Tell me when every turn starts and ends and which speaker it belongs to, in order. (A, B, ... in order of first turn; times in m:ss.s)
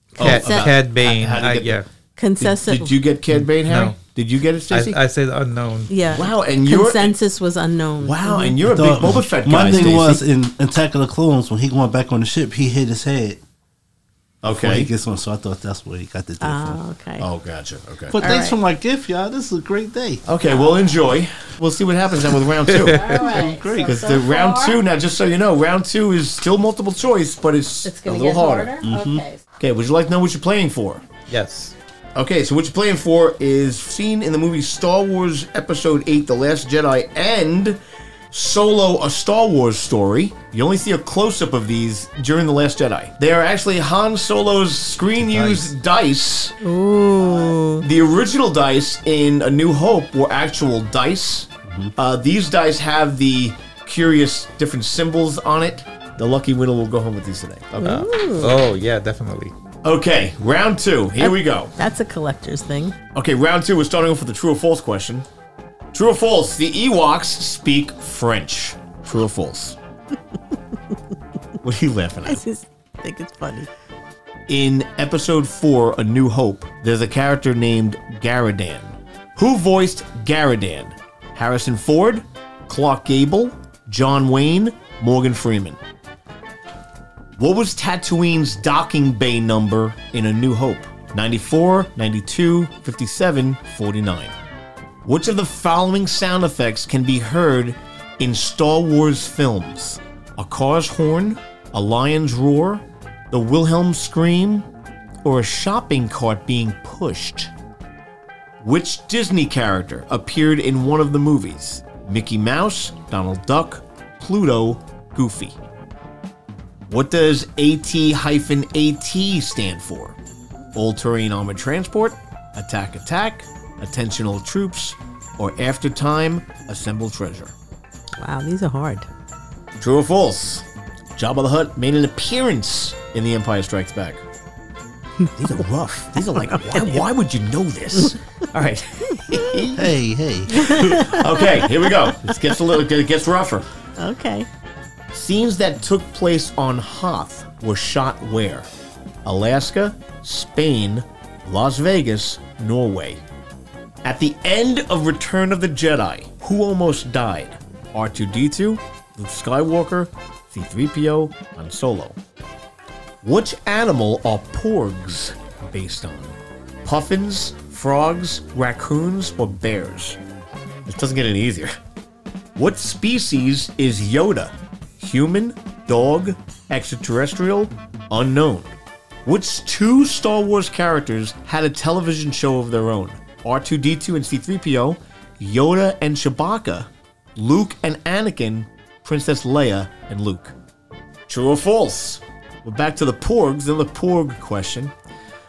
0:00.2-0:00.7 A
0:00.2-0:01.8 B
0:00.2-0:01.9 C
0:02.2-0:03.0 A
0:02.4-0:05.0 B
0:03.4-0:04.0 C
0:04.7-0:05.9 C
0:05.9-0:08.6 A
0:06.1-0:07.2 B
0:08.0-0:10.2 B
0:08.7-0:13.4 D
0:14.4-0:14.9 B
0:14.5-0:16.8 D
0:16.4-0:17.3 A
0:17.2-0:18.2 B
0:18.1-0:20.2 D
0:18.2-0:18.6 A
0:20.2-0:23.3 B
0:22.8-0:24.8 A
0:23.1-0:24.0 D
0:23.8-0:28.8 B
0:27.8-0:29.4 A
0:28.8-0:29.2 D
0:29.6-0:31.1 B
0:31.3-0:31.8 C
0:32.2-0:37.8 B
0:38.3-0:46.6 B
0:46.6-0:47.9 A
0:47.8-0:58.1 B
0:57.8-0:58.6 A
0:57.8-0:59.5 C
0:59.8-1:01.7 B
1:01.2-1:03.0 A
1:03.2-1:05.3 B
1:05.9-1:09.8 B
1:11.6-1:12.4 B
1:12.3-1:13.7 A
1:14.5-1:25.8 B
1:27.4-1:34.4 B
1:35.0-1:44.7 B
1:45.2-1:47.5 B
1:48.6-1:55.6 B
1:56.9-2:00.2 B
2:00.7-2:07.5 B
2:08.2-2:09.1 A
2:09.8-2:14.2 B
2:15.4-2:19.9 B
2:16.2-2:17.0 A
2:19.3-2:19.7 A
2:19.8-2:21.2 D
2:20.5-2:21.4 A
2:21.0-2:23.7 B
2:24.0-2:24.5 A
2:25.1-2:28.7 B
2:29.2-2:33.2 B
2:34.0-2:42.2 B
2:43.2-2:50.2 B
2:50.9-2:51.7 B
2:52.6-2:58.7 B
2:59.2-3:10.6 B
3:11.3-3:14.9 B